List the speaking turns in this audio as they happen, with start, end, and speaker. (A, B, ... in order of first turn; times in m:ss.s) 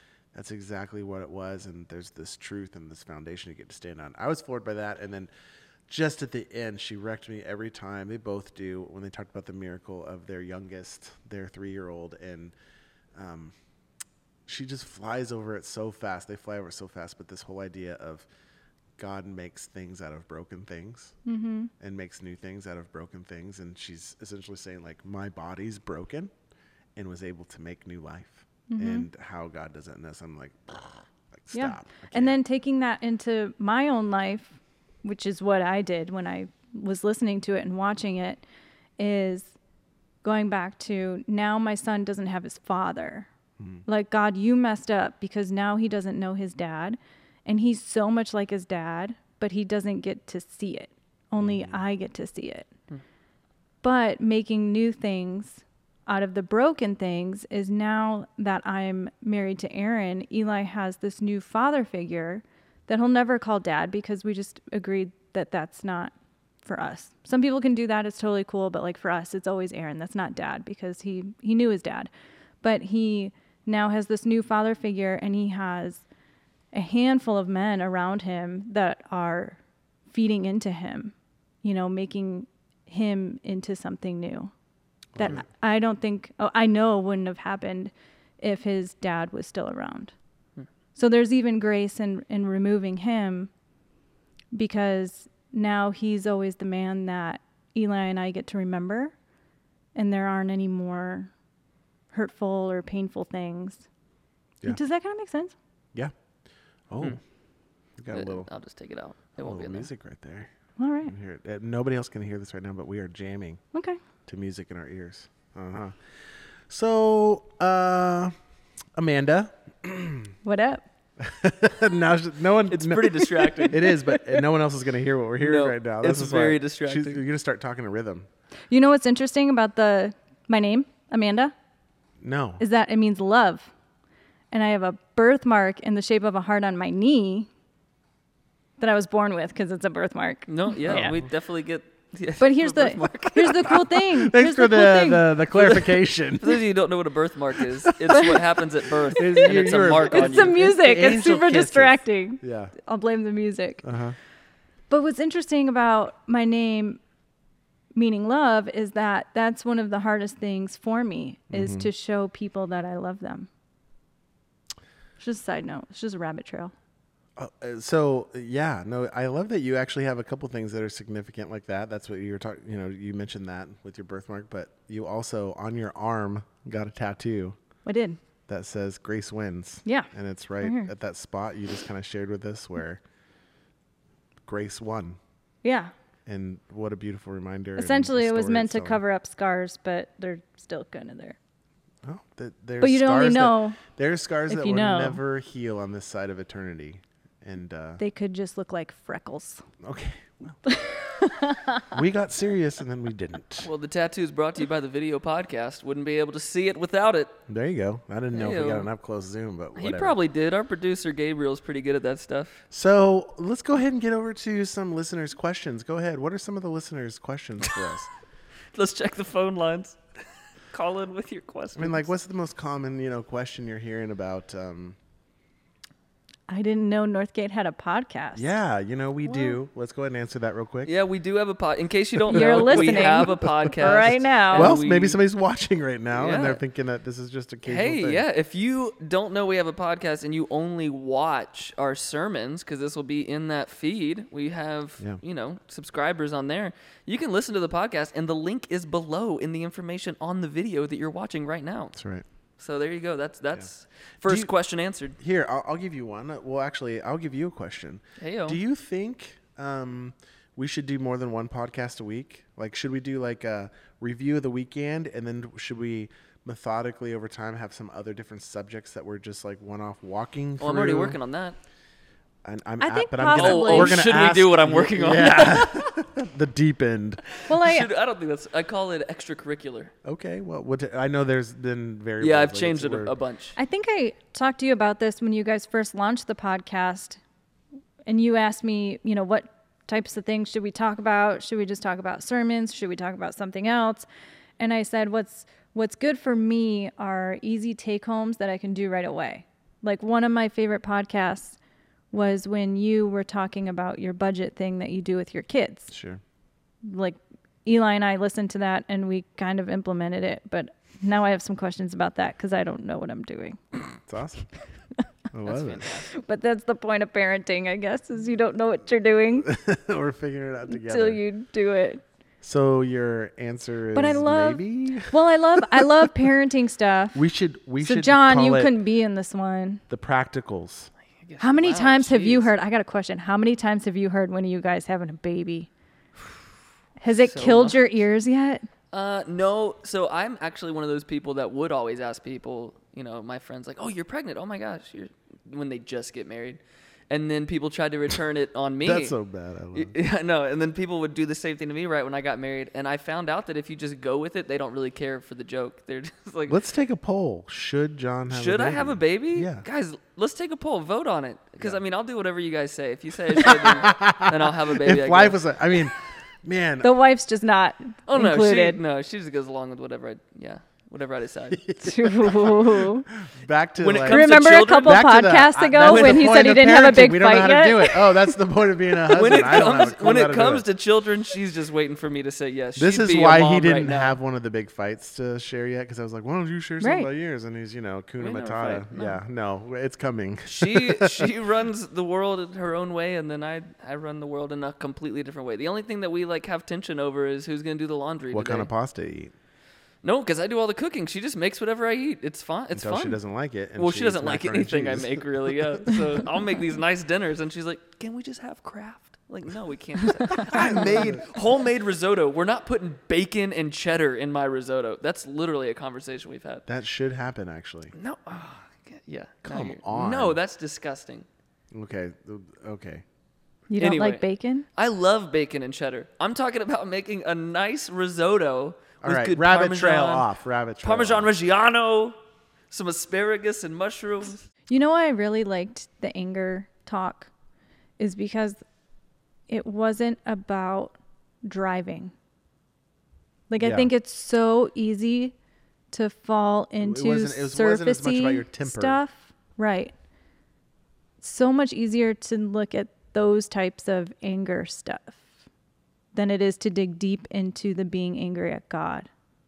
0:00.3-0:05.3 A
0:05.9-0:12.5 A
0:13.2-0:13.5 A
0:14.5-0:18.3 A
0:19.0-0:21.2 A
0:21.2-0:21.7 B
0:21.8-0:26.3 A
0:27.0-0:32.4 A
0:28.7-0:29.1 B
0:31.5-0:38.4 B
0:39.0-0:39.6 B
0:40.2-0:43.3 B
0:43.9-0:52.7 B
0:51.4-0:51.8 A
0:53.8-1:12.1 B
1:12.6-1:16.0 B
1:16.7-1:24.5 B
1:25.2-1:25.4 A
1:25.2-1:30.1 B
1:31.0-1:33.5 B
1:34.5-1:39.1 B
1:40.0-1:41.3 B
1:42.1-1:43.9 B
1:44.7-1:45.5 B
1:46.9-1:47.2 A
1:48.0-1:48.5 A
1:48.1-1:49.9 C
1:49.4-1:50.5 A
1:50.8-1:51.1 B
1:51.1-1:53.6 A
1:53.7-1:54.0 B
1:54.3-1:56.0 A
1:56.7-1:58.3 A
1:59.0-2:00.3 A
2:00.4-2:00.8 B
2:01.2-2:08.3 A
2:02.7-2:04.1 C
2:05.4-2:07.2 C
2:08.7-2:11.5 B
2:12.2-2:12.6 A
2:12.6-2:13.7 B
2:14.5-2:17.5 B
2:18.8-2:21.2 B
2:20.5-2:23.8 C
2:20.9-2:21.3 A
2:22.4-2:25.4 B
2:23.7-2:26.7 A
2:26.4-2:30.6 C
2:27.6-2:28.5 A
2:28.1-2:28.4 B
2:29.1-2:32.7 A
2:29.2-2:29.5 B
2:30.1-2:33.8 B
2:33.8-2:34.2 A
2:34.9-2:37.0 B
2:38.0-2:43.5 B
2:41.5-2:41.9 A
2:45.2-2:46.7 B
2:47.4-2:57.6 A
2:57.9-2:58.2 B
2:58.5-3:03.0 A
2:59.9-3:00.9 B
3:04.4-3:05.2 A
3:05.6-3:05.9 B
3:06.3-3:09.0 A
3:07.8-3:11.4 B
3:12.0-3:18.0 A
3:12.8-3:13.8 B
3:14.5-3:15.2 B
3:18.0-3:19.6 B
3:19.8-3:20.6 A
3:20.7-3:21.8 B
3:21.9-3:23.7 A
3:23.6-3:27.4 C
3:27.5-3:30.2 A
3:28.3-3:28.9 C
3:29.8-3:32.6 C
3:32.7-3:38.1 A
3:38.7-3:40.0 C
3:40.7-3:42.1 C
3:41.8-3:45.0 A
3:46.5-3:48.5 B
3:48.4-3:50.9 A
3:49.2-3:49.6 B
3:50.8-3:55.2 C
3:52.3-3:58.2 A
3:52.3-3:54.8 B
3:56.1-3:56.6 C
3:57.6-4:12.0 C
4:12.0-4:12.2 A
4:12.6-4:15.2 C
4:14.2-4:14.5 A
4:15.2-4:31.2 A
4:18.2-4:18.6 C
4:30.6-4:31.6 C
4:32.4-4:37.3 A
4:32.8-4:34.0 B
4:33.3-4:35.9 C
4:37.4-4:39.9 C
4:37.5-4:37.9 B
4:40.0-4:43.2 A
4:42.2-4:43.6 C
4:43.6-4:47.2 B
4:48.1-4:54.1 B
4:54.6-5:01.6 B
5:02.1-5:05.9 B
5:05.9-5:06.2 A
5:06.8-5:13.8 B
5:14.0-5:14.5 A
5:15.3-5:15.8 A
5:15.4-5:16.1 C
5:16.1-5:19.5 B
5:19.4-5:21.2 A
5:20.7-5:22.0 B
5:22.4-5:26.1 A
5:23.9-5:27.2 B
5:27.1-5:28.7 A
5:27.8-5:29.8 B
5:29.9-5:30.9 A
5:31.2-5:32.5 C
5:31.4-5:35.7 B
5:37.0-5:38.7 B
5:37.2-5:37.9 C
5:38.9-5:49.1 C
5:48.8-5:50.0 A
5:49.7-5:56.6 C
5:56.5-5:59.6 A
5:58.3-6:05.4 C
6:03.3-6:06.9 A
6:06.8-6:08.8 B
6:08.1-6:11.6 C
6:11.5-6:20.7 A
6:11.8-6:13.1 B
6:13.8-6:15.0 C
6:14.0-6:18.4 B
6:15.8-6:16.4 C
6:19.1-6:24.2 C
6:22.8-6:31.3 A
6:26.8-6:27.1 B
6:28.2-6:29.2 C
6:30.5-6:38.7 C
6:38.3-6:39.3 A
6:40.0-6:43.2 C
6:42.7-6:46.0 A
6:43.8-6:56.7 C
6:50.3-6:51.4 A
6:56.7-6:57.9 A
6:58.0-7:01.3 C
6:59.4-7:00.4 A
7:01.7-7:03.0 A
7:03.7-7:04.7 B
7:03.8-7:10.3 C
7:09.0-7:11.3 A
7:10.8-7:12.2 C
7:12.7-7:14.4 C
7:14.7-7:17.3 B
7:18.0-7:18.6 B
7:19.5-7:22.1 B
7:23.5-7:25.4 B
7:23.6-7:23.9 A
7:25.9-7:29.9 B
7:26.8-7:29.0 A
7:31.2-7:35.4 B
7:36.1-7:39.1 B